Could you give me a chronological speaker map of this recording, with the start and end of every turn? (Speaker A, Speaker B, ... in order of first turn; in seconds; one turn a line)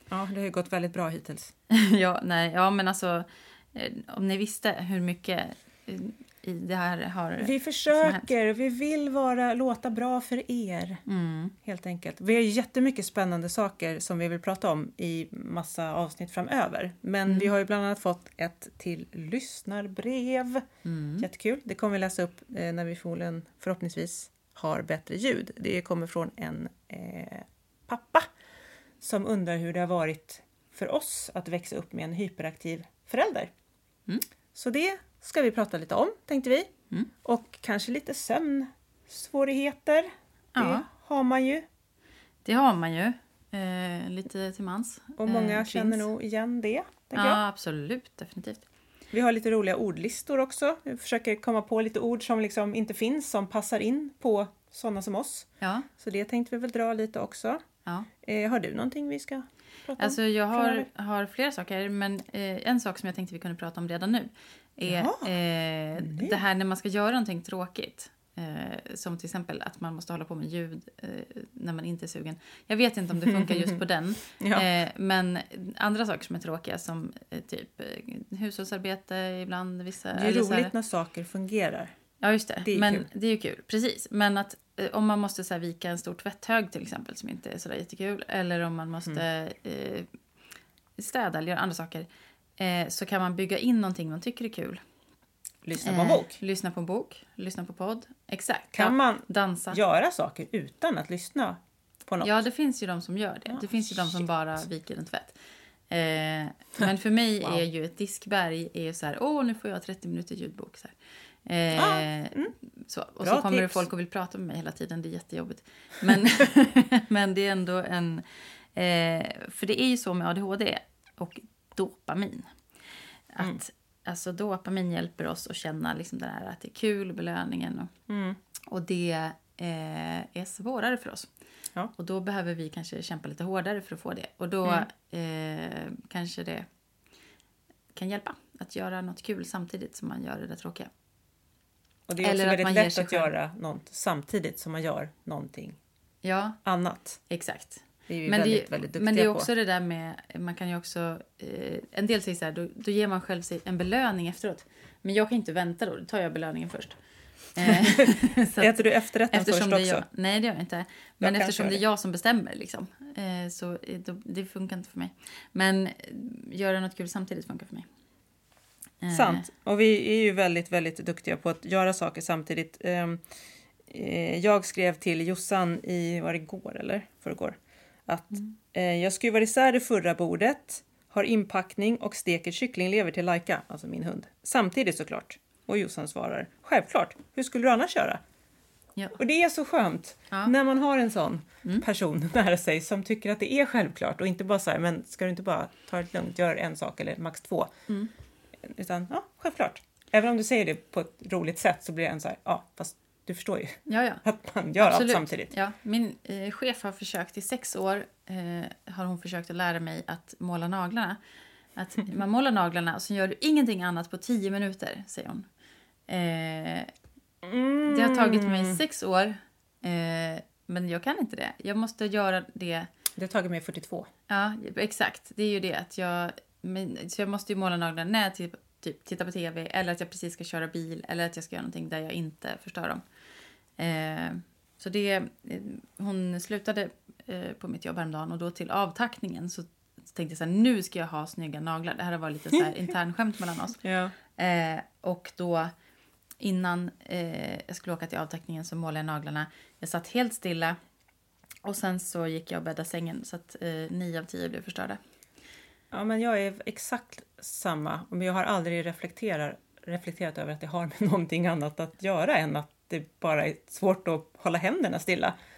Speaker A: 0.1-1.5
Speaker B: 1.7-8.3
Speaker A: 7.4-11.0
Speaker B: 11.1-11.5
Speaker A: 11.6-20.6
Speaker B: 20.8-21.2
Speaker A: 21.2-28.3
Speaker A: 29.0-33.5
Speaker A: 34.5-36.7
Speaker A: 37.2-41.6
Speaker B: 40.5-40.9
Speaker B: 42.4-46.1
Speaker A: 45.2-47.4
Speaker B: 47.1-48.6
Speaker A: 49.1-57.6
Speaker B: 55.6-55.9
Speaker A: 58.2-60.9
Speaker B: 60.0-80.7
Speaker A: 64.8-65.3
Speaker A: 66.0-66.4
Speaker A: 73.2-73.8
Speaker A: 74.4-74.7
Speaker A: 80.1-81.9
Speaker B: 82.2-90.1
Speaker A: 82.6-83.1
Speaker B: 91.0-92.1
Speaker B: 92.6-94.8
Speaker A: 95.6-96.4
Speaker B: 95.8-99.8
Speaker A: 98.7-102.4
Speaker B: 102.2-105.3
Speaker A: 103.5-104.2
Speaker B: 105.9-110.9
Speaker B: 111.5-122.5
Speaker A: 111.7-112.5
Speaker A: 113.2-113.8
Speaker B: 123.3-127.9
Speaker A: 128.1-128.4
Speaker B: 128.7-131.3
Speaker B: 131.9-136.7
Speaker B: 137.9-140.9
Speaker A: 142.1-145.8
Speaker B: 142.2-143.3
Speaker B: 146.2-146.6
Speaker A: 146.6-147.2
Speaker B: 147.3-156.9
Speaker A: 148.1-149.5
Speaker B: 157.5-167.8
Speaker A: 157.7-160.1
Speaker A: 161.2-161.8
Speaker B: 169.0-169.4
Speaker A: 169.1-173.2
Speaker A: 173.9-188.2
Speaker A: 189.2-197.7
Speaker A: 198.6-205.5
Speaker B: 203.9-204.2
Speaker B: 204.8-211.2
Speaker B: 211.8-215.5
Speaker B: 216.1-216.9
Speaker A: 217.4-218.8
Speaker B: 217.8-222.9
Speaker A: 223.2-224.1
Speaker B: 224.3-233.0
Speaker B: 233.8-243.8
Speaker A: 243.8-244.1
Speaker B: 244.3-245.7
Speaker B: 246.4-250.8
Speaker B: 251.6-255.0
Speaker A: 255.9-265.4